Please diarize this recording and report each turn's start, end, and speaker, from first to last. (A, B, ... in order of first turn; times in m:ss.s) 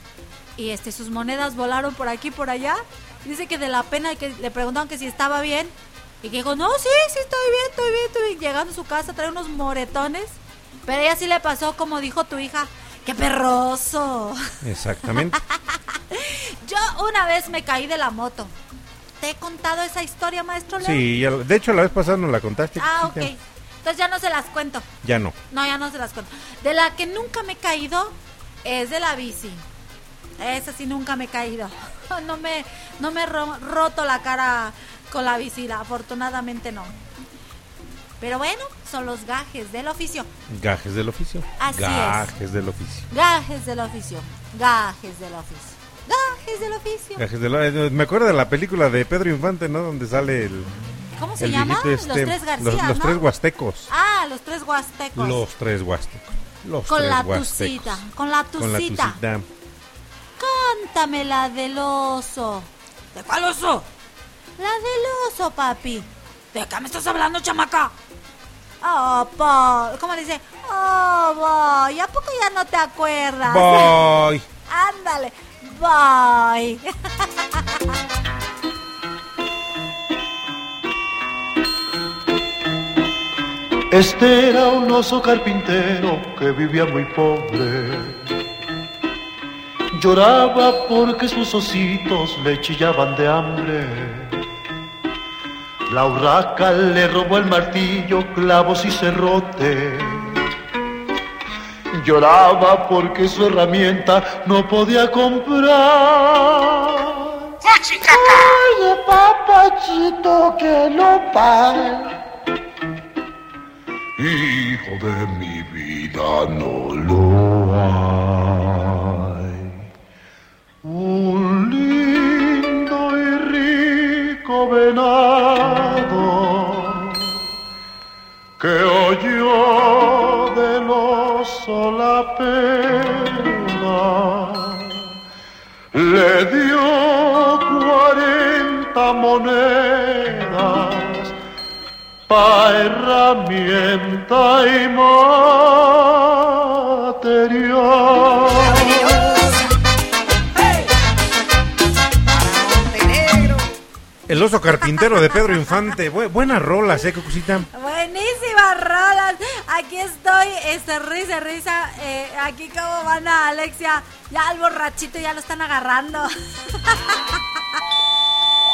0:00.6-0:14.4 A
0:14.6-0:15.4 B
0:15.8-0:18.5 A
0:19.2-0:21.0 A
0:20.8-0:23.3 B
0:22.8-0:24.9 A
0:25.0-0:25.4 B
0:25.5-0:29.6 A
0:30.4-0:37.0 A
0:38.2-0:40.3 A
0:40.5-0:43.1 B
0:41.6-0:42.3 A
0:43.1-0:47.2 A
0:47.2-0:50.7 B
0:51.2-0:53.2 A
0:51.4-0:53.9 B
0:53.9-0:55.4 A
0:55.2-0:58.0 B
0:56.9-0:59.2 A
0:58.6-0:59.5 B
1:00.4-1:03.9 A
1:04.6-1:07.9 A
1:08.8-1:14.0 A
1:13.5-1:14.4 B
1:14.7-1:16.8 A
1:23.9-1:28.3 C
1:29.9-1:34.4 C
1:35.9-1:40.3 C
1:41.9-1:47.3 C
1:48.0-1:52.1 C
1:54.2-1:59.7 C
2:00.8-2:07.3 C
2:08.6-2:15.0 C
2:15.9-2:21.3 C
2:22.3-2:29.5 C
2:34.3-2:37.7 B
2:37.7-2:46.3 A
2:46.9-2:47.4 A